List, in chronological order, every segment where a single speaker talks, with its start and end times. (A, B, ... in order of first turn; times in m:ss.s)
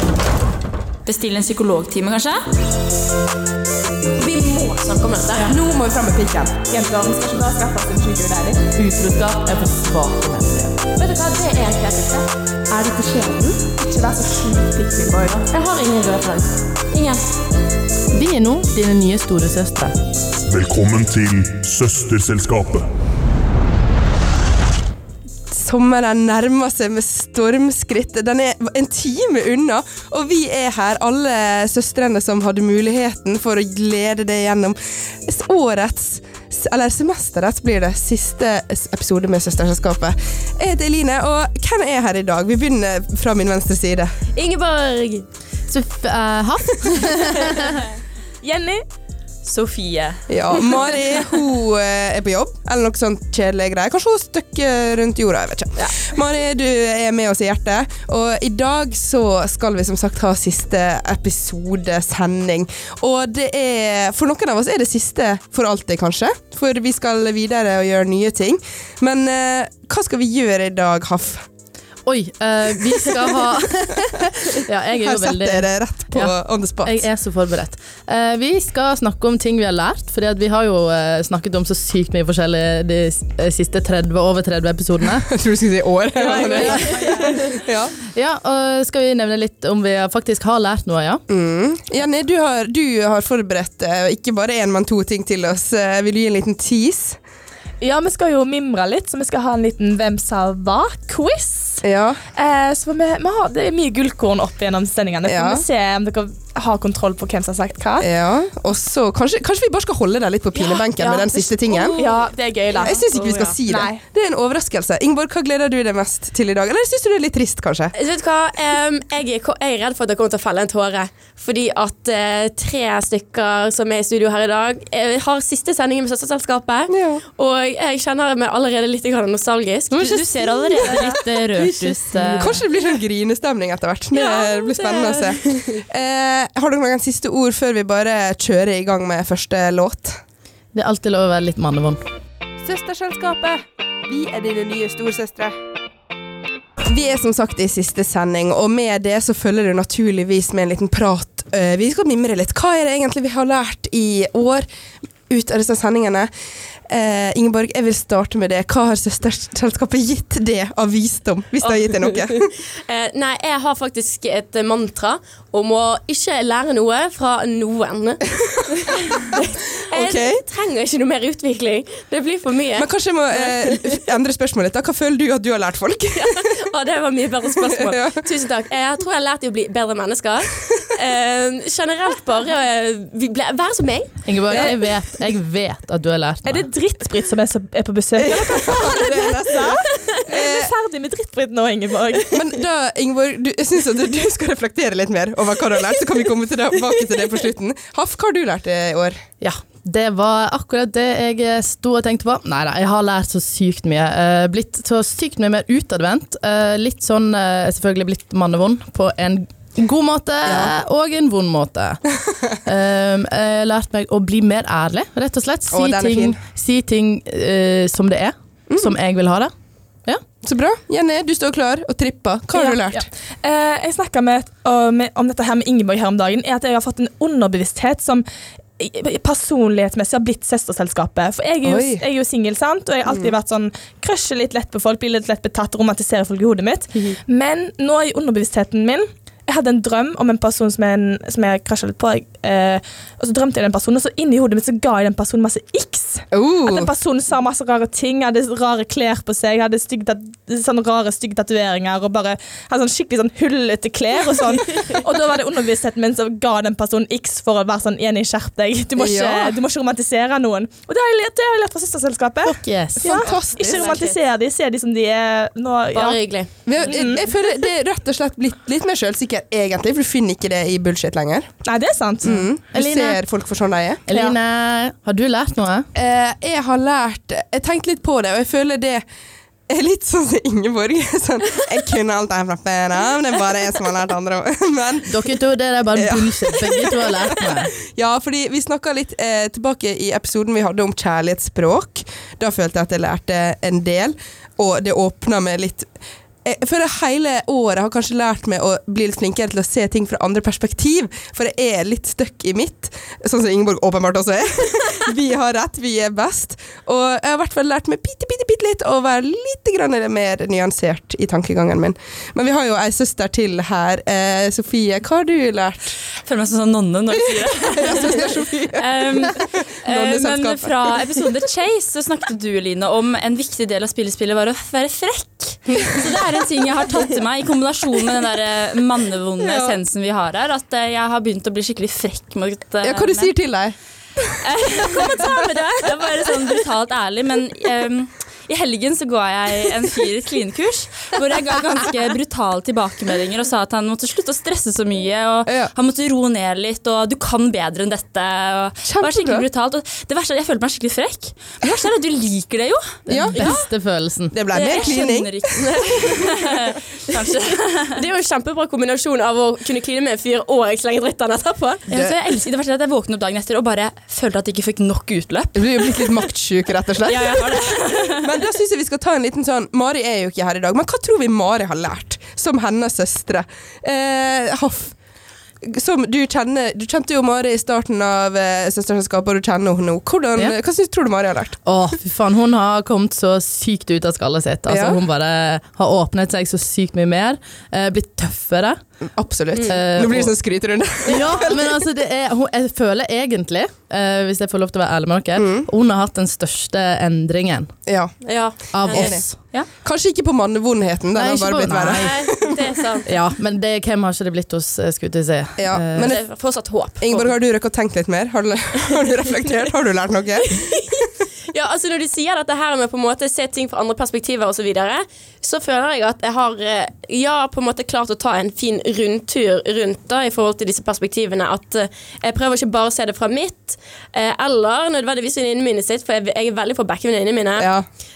0:01.0-0:02.4 A
0:04.2-0:05.5 B
0:05.4-0:06.6 C
0:06.7-0:08.6 D
0:08.7-0:10.8 E
0:11.0-0:12.3 B
0:12.7-0:15.4 D
0:13.1-0:13.4 B
0:15.5-0:17.3 B
0:18.1-0:19.9 E
0:20.4-0:22.9 F
0:25.5-0:44.1 C
0:44.3-0:45.2 B
0:45.7-0:47.8 E
0:48.4-0:48.8 D
0:49.4-0:50.2 A
0:50.3-1:11.4 C
1:12.0-1:25.3 E
1:15.0-1:17.0 C
1:25.2-1:27.9 C
1:26.5-1:27.1 E
1:26.6-1:27.2 A
1:28.1-1:31.2 E
1:31.3-1:37.2 C
1:37.8-1:41.8 D
1:41.8-1:42.2 C
1:42.4-1:48.1 D
1:45.2-1:45.6 C
1:48.0-1:52.0 C
1:50.6-1:53.5 B
1:51.9-1:54.0 D
1:52.8-1:57.9 C
1:57.9-2:10.2 B
2:06.9-2:07.2 C
2:09.9-2:12.6 E
2:09.9-2:12.6 A
2:10.8-2:11.0 B
2:12.4-2:20.2 C
2:14.1-2:15.8 B
2:20.7-2:22.0 E
2:22.6-2:25.5 C
2:26.8-2:34.6 C
2:35.3-2:36.3 C
2:36.9-2:42.5 C
2:41.6-2:48.2 B
2:48.8-2:54.0 B
2:49.9-2:50.4 C
2:52.8-2:56.5 C
2:56.1-3:04.6 B
2:57.7-2:58.2 C
3:04.2-3:06.6 E
3:04.5-3:04.7 C
3:06.4-3:12.4 D
3:08.2-3:10.7 C
3:12.3-3:19.2 C
3:19.4-3:32.0 E
3:30.4-3:30.7 C
3:32.6-3:39.5 E
3:35.7-3:36.4 C
3:40.4-3:43.1 C
3:42.5-3:48.2 D
3:48.8-4:26.2 D
3:51.6-3:52.0 C
3:53.0-3:53.4 C
4:06.3-4:06.9 C
4:19.0-4:19.6 C
4:22.4-4:23.3 E
4:23.0-4:23.9 C
4:23.6-4:24.1 B
4:25.9-4:26.5 B
4:26.6-4:31.5 C
4:26.8-4:27.3 D
4:31.6-4:32.4 D
4:32.2-4:34.0 C
4:32.3-4:33.2 E
4:34.1-4:35.9 E
4:35.9-4:39.0 C
4:39.7-4:45.2 C
4:45.1-4:47.7 E
4:46.0-4:55.9 C
4:56.4-5:16.0 C
5:16.2-5:33.3 A
5:17.7-5:20.7 C
5:29.4-5:29.8 C
5:32.8-5:33.8 C
5:34.4-5:52.9 A
5:34.7-5:35.2 C
5:45.4-5:45.7 C
5:48.8-5:49.4 C
5:53.1-5:54.6 E
5:53.1-5:53.5 C
5:53.4-5:53.6 B
5:54.3-5:55.4 C
5:54.5-5:55.0 B
5:54.6-5:58.0 A
5:55.6-5:56.6 B
5:57.9-6:01.8 B
6:01.9-6:06.1 A
6:01.9-6:02.4 C
6:05.5-6:07.6 C
6:07.0-6:08.3 A
6:08.2-6:14.9 C
6:15.6-6:21.6 C
6:21.6-6:28.8 E
6:24.7-6:25.0 C
6:29.2-6:31.8 C
6:29.6-6:30.3 E
6:31.0-6:37.7 E
6:35.4-6:35.7 C
6:37.9-6:38.1 C
6:38.2-6:39.2 B
6:38.7-6:39.4 E
6:38.8-6:39.2 C
6:39.8-6:42.6 C
6:41.1-6:42.4 E
6:41.8-6:43.0 B
6:43.0-6:46.1 E
6:45.6-6:46.2 C
6:46.0-6:47.3 B
6:47.0-6:50.6 C
6:50.4-7:07.7 B
7:07.6-7:07.8 C